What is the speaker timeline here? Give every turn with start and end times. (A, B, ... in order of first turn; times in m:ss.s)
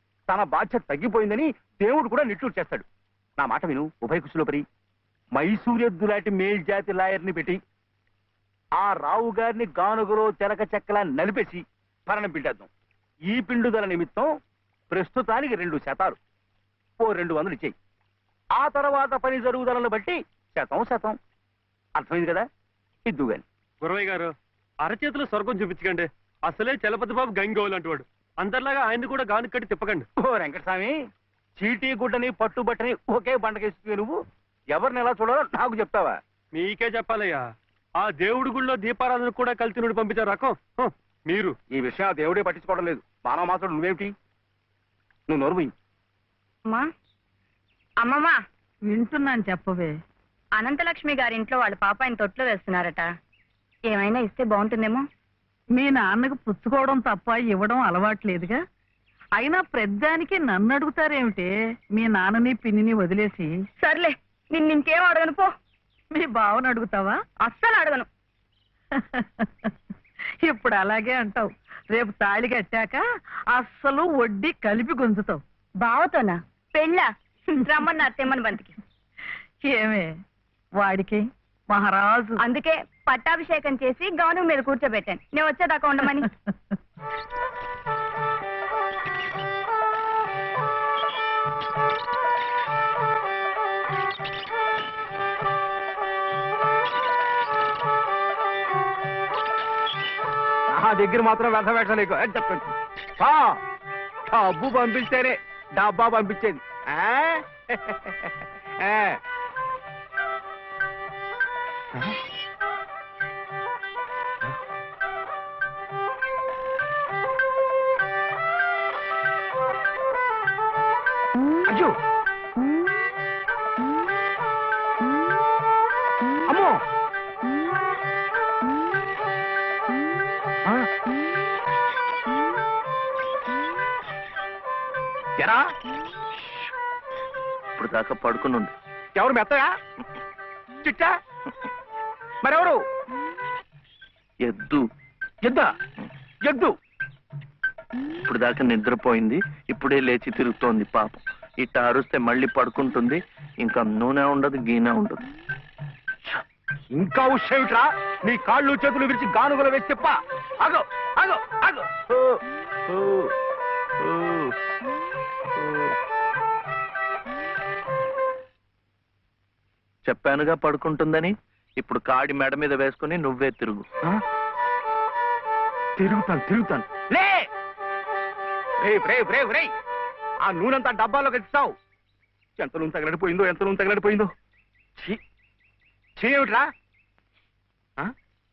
0:00.3-0:02.9 A
0:03.4-0:04.6 A
0:05.4-0:07.6 A
0:08.8-0:12.7 A
0:13.3-0:14.3 A
0:14.9-0:16.2 A
0:17.0-0:17.8 A
0:18.6-0:21.2 A
0:22.0-0:22.5 A
0:23.1-0:23.4 A
0:23.8-0:24.3 B
0:24.8-0:30.0 B
0:30.2-0:31.0 A
0:31.6-0:34.2 A
0:34.7-0:36.2 A
0:36.5-0:37.4 B
0:38.0-0:41.5 B
0:41.7-0:44.1 A
0:45.3-0:45.7 A
0:48.0-0:48.4 C
0:48.9-0:49.9 D
0:50.6-0:53.1 C
0:53.9-0:55.0 C
0:55.8-0:58.6 D
0:59.4-1:03.5 D
1:03.8-1:05.5 C
1:06.1-1:07.2 D
1:07.4-1:08.1 C
1:09.0-1:09.7 D
1:10.4-1:15.4 D
1:15.8-1:18.7 C
1:19.7-1:20.1 D
1:20.8-1:22.4 D
1:22.4-1:26.3 C
1:40.7-1:43.6 A
1:44.3-1:49.2 A
2:01.7-2:02.0 A
2:06.5-2:06.8 A
2:15.4-2:15.7 A
2:17.8-2:18.7 E
2:19.2-2:19.7 A
2:20.8-2:21.2 A
2:22.4-2:22.8 A
2:24.4-2:24.8 E
2:25.4-2:25.7 A
2:26.4-2:26.7 A
2:28.2-2:35.2 E
2:36.9-2:42.2 A
2:44.0-2:44.5 E
2:50.1-2:53.8 E
2:56.0-2:57.5 A
2:58.8-2:59.7 A
3:00.4-3:01.7 A
3:02.6-3:04.3 A
3:06.2-3:06.7 A